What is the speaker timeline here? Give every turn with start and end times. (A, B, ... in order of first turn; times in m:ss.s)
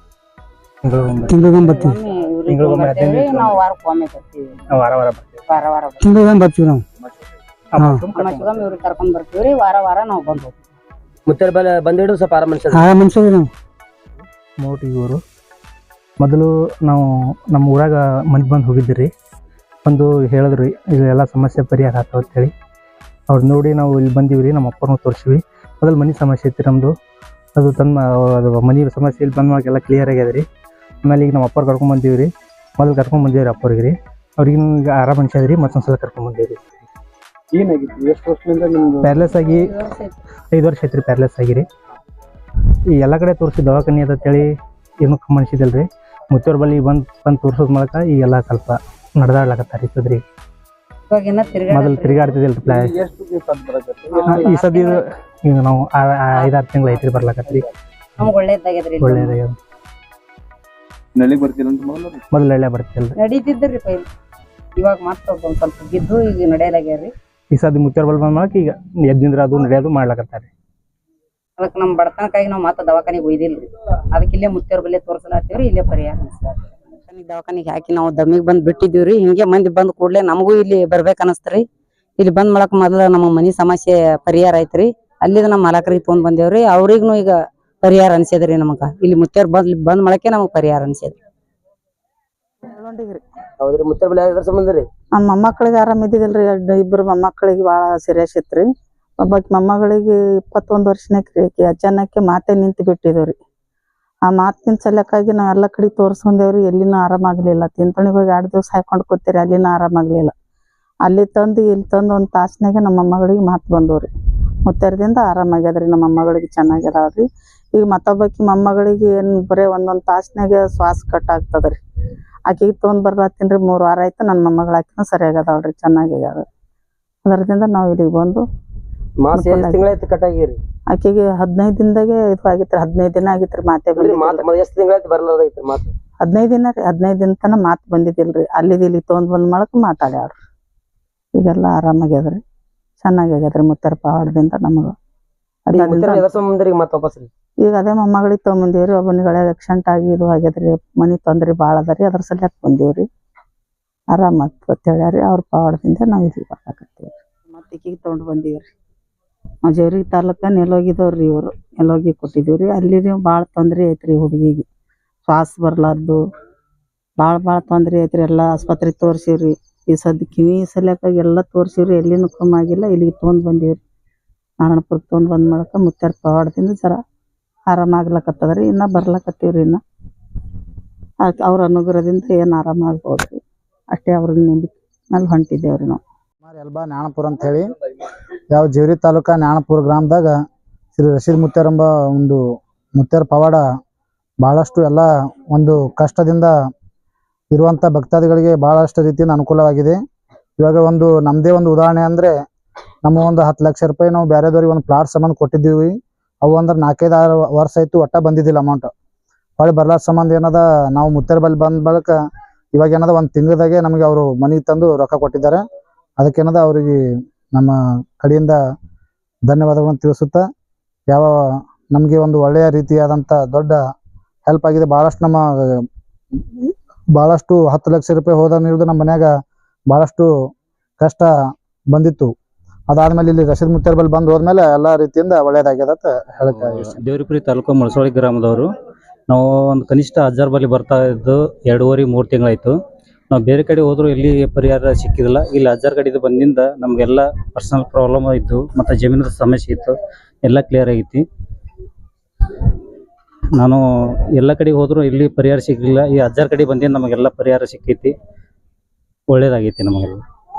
0:00.8-0:01.4 A
0:01.3-0:02.0 B
0:01.5-0:04.5 C
0:02.5-0:03.6 A
0:04.7-0:05.4 A
0:05.5-0:06.0 C
0:06.0-0:06.8 B
0:07.7-0:08.6 A
0:07.8-0:08.0 B
0:08.1-0:10.6 C
0:11.3-0:12.8 D
0:12.7-0:13.5 B
0:14.6-0:15.2 A
0:16.2-0:19.1 A
0:19.8-0:22.5 A
0:23.3-0:26.9 A
0:27.6-0:30.5 A
0:31.0-0:36.6 A
0:37.5-0:39.3 E
0:39.0-0:39.8 A
0:39.3-0:40.2 C
0:40.5-0:41.7 A
0:43.0-0:50.2 A
0:51.1-0:52.4 C
0:51.7-0:53.0 A
0:52.6-0:54.6 E
0:54.1-0:55.0 C
0:54.3-0:57.7 A
0:58.2-0:59.4 C
0:59.0-0:59.6 A
1:01.2-1:02.2 E
1:02.3-1:03.2 A
1:03.2-1:04.1 C
1:04.8-1:07.1 C
1:07.5-1:10.5 A
1:11.6-1:21.7 C
1:22.2-1:31.2 C
1:32.6-1:33.2 F
1:33.6-1:34.8 D
1:35.2-1:38.7 F
1:39.2-1:43.4 F
1:44.3-1:50.3 F
1:51.1-1:54.1 F
1:54.7-2:01.8 F
2:02.5-2:06.4 F
2:07.2-2:08.4 F
2:09.2-2:10.6 D
2:09.3-2:09.8 F
2:10.9-2:14.5 F
2:14.0-2:15.9 D
2:16.2-2:20.4 F
2:21.4-2:22.4 F
2:23.0-2:24.9 F
2:25.7-2:26.3 F
2:25.8-2:27.3 D
2:27.6-2:33.1 F
2:34.1-2:38.7 F
2:39.6-2:44.6 F
2:45.3-2:46.2 F
2:47.2-2:53.8 F
2:54.6-2:57.0 F
2:57.7-2:59.8 F
3:01.2-3:03.4 F
3:03.9-3:06.0 F
3:06.4-3:07.7 G
3:08.5-3:10.4 G
3:11.0-3:12.4 G
3:13.0-3:13.6 G
3:14.4-3:16.5 G
3:17.5-3:20.0 G
3:20.6-3:22.4 G
3:23.0-3:28.9 G
3:29.6-3:32.2 G
3:32.7-3:35.6 G
3:36.2-3:37.0 G
3:37.5-3:38.6 G
3:39.5-3:40.4 G
3:41.1-3:43.8 G
3:44.5-3:45.8 G
3:46.6-3:49.3 G
3:49.9-3:50.3 G
3:51.0-3:51.3 G
3:51.9-3:52.3 G
3:52.9-3:57.0 G
3:56.5-3:58.7 H
3:59.3-4:02.8 H
4:03.3-4:11.2 H
4:14.4-4:18.1 H
4:19.3-4:20.2 H